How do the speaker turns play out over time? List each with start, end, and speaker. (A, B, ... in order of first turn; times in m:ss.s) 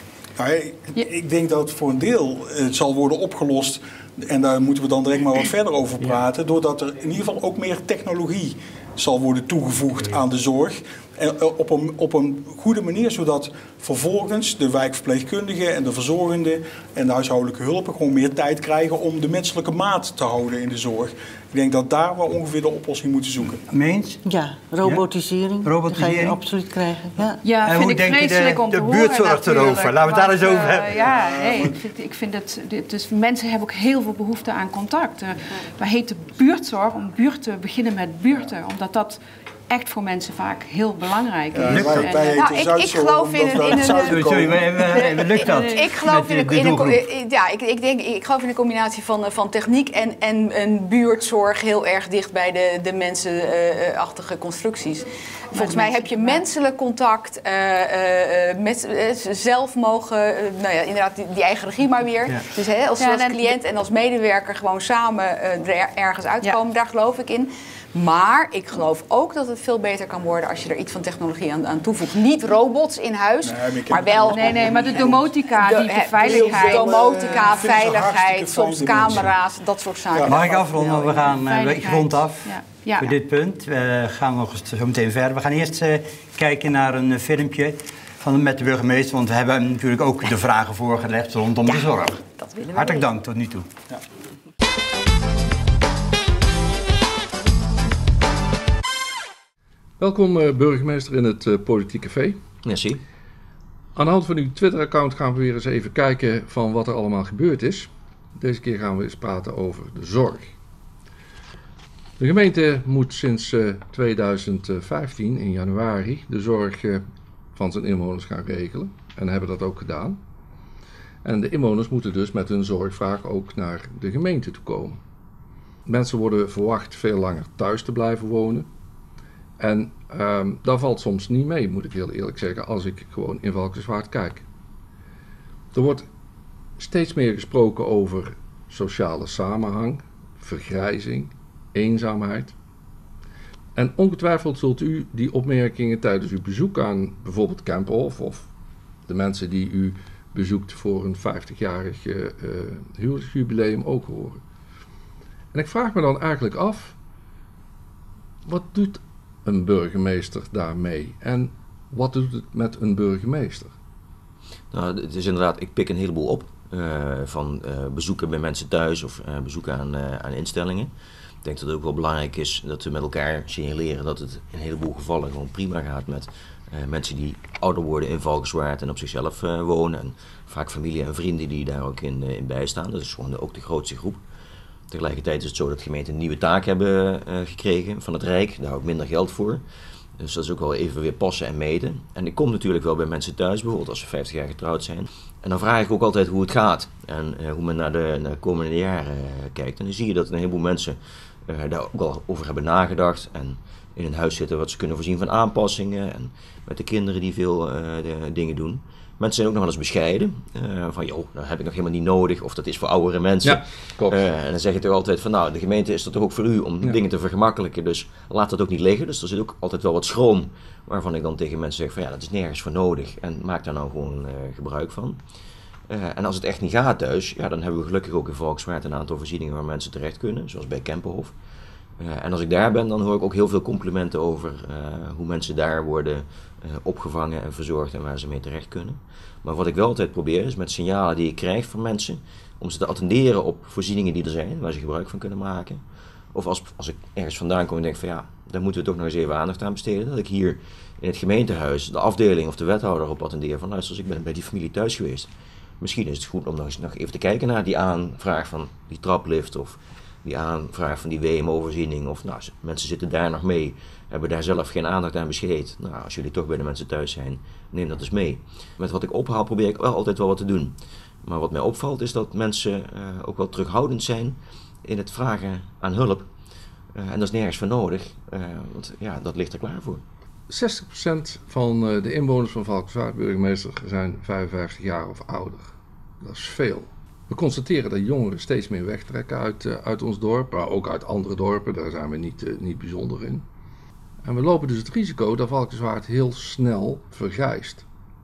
0:00.4-0:23.6 A
0:23.7-0:24.2 B
0:24.2-0:27.4 C
0:25.6-0:26.4 B
0:27.4-0:42.4 D
0:27.6-0:31.0 B
0:41.5-0:44.6 A
0:41.7-0:42.1 B
0:42.2-0:44.4 E
0:44.0-0:47.0 B
0:44.9-1:21.2 E
0:45.4-0:45.8 D
0:55.5-0:56.4 D
1:03.0-1:03.5 D
1:13.4-1:15.3 A
1:14.3-1:17.5 D
1:16.2-1:19.3 A
1:20.1-1:20.4 A
1:20.2-1:33.7 B
1:21.2-1:23.2 D
1:32.2-1:33.0 E
1:40.0-1:42.4 F
1:42.6-1:43.0 G
1:43.9-1:50.5 F
1:52.2-1:57.0 F
1:57.5-2:00.2 F
2:01.2-2:05.0 F
2:05.8-2:08.7 F
2:09.6-2:14.4 F
2:15.7-2:16.0 F
2:16.8-2:22.5 F
2:23.7-2:28.5 F
2:29.0-2:34.4 F
2:35.5-2:36.9 F
2:38.4-2:43.7 F
2:44.7-2:50.9 G
2:51.4-3:04.2 G
3:04.9-3:09.6 G
3:10.2-3:45.2 G
3:33.4-3:34.2 F
3:45.9-3:51.3 G
3:52.0-4:05.8 G
4:06.3-4:30.7 G
4:31.2-4:36.3 G
4:37.0-4:40.0 G
4:40.5-4:53.4 F
4:54.2-4:57.8 F